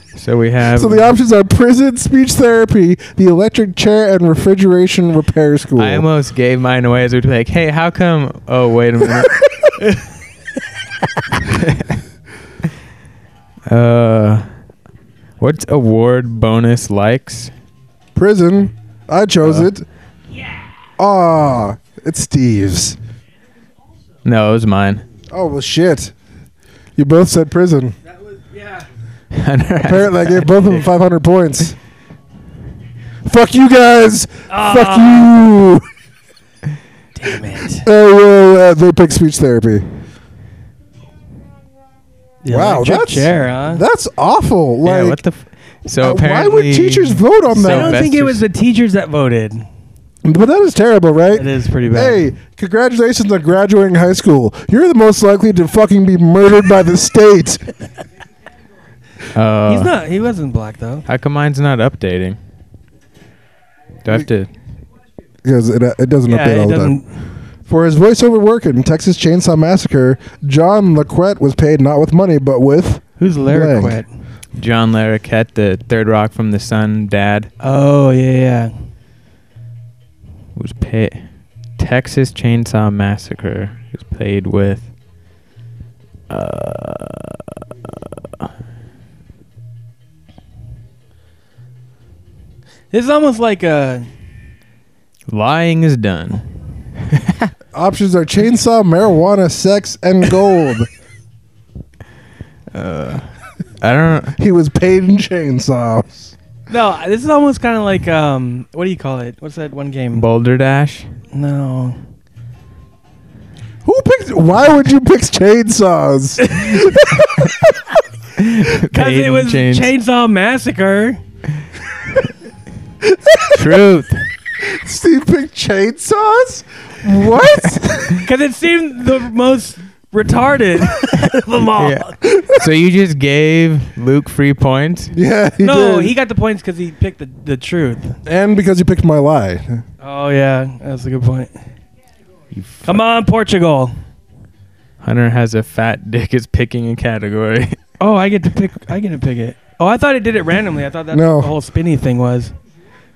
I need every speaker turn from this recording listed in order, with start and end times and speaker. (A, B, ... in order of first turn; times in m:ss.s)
0:00.2-0:01.1 A
0:00.7-0:06.0 B
0:05.8-0:09.4 A
0:11.4-0:12.0 A
0:13.7-0:14.5 A
0:15.4-0:17.5 A
0:18.1-0:19.8 B
0:19.4-0:19.7 A
0:21.0-0:23.0 B
0:24.2-0:25.0 A
0:25.3-0:26.1 B
0:27.0-0:28.0 B
0:28.4-0:28.8 C
0:29.3-0:30.9 A
0:29.8-0:31.8 B
0:33.2-0:35.8 B
0:34.5-0:35.3 C
0:37.1-0:37.8 C
0:37.7-0:39.8 B
0:42.4-0:43.8 C
0:42.5-0:45.2 B
0:44.8-0:48.4 A
0:46.0-0:48.1 B
0:47.6-0:49.6 C
0:50.2-0:57.6 B
0:51.3-0:52.3 C
0:59.3-0:59.9 A
0:59.6-1:01.0 C
1:01.0-1:02.4 A
1:04.0-1:04.5 A
1:05.4-1:07.0 B
1:06.3-1:07.1 C
1:07.6-1:14.0 B
1:13.2-1:14.1 C
1:14.6-1:17.5 A
1:17.6-1:18.7 C
1:20.6-1:21.2 A
1:21.8-1:24.9 A
1:26.3-1:28.4 A
1:32.9-1:34.1 C
1:35.3-1:36.4 A
1:37.0-1:37.5 A
1:37.7-1:40.9 B
1:42.7-1:43.3 A
1:43.8-1:44.4 A
1:44.4-1:46.3 B
1:46.7-1:50.2 C
1:50.1-1:51.1 A
1:51.3-1:52.0 C
1:53.8-1:57.5 B
1:58.4-1:59.9 A
1:58.8-2:01.2 C
2:03.5-2:04.2 A
2:04.6-2:08.2 B
2:08.2-2:12.2 C
2:11.8-2:15.1 A
2:12.2-2:12.7 B
2:15.1-2:16.1 B
2:15.6-2:18.2 C
2:18.2-2:19.8 B
2:20.0-2:21.5 C
2:22.5-2:23.0 A
2:22.8-2:23.9 C
2:25.0-2:27.8 A
2:28.0-2:32.5 C
2:31.1-2:31.5 B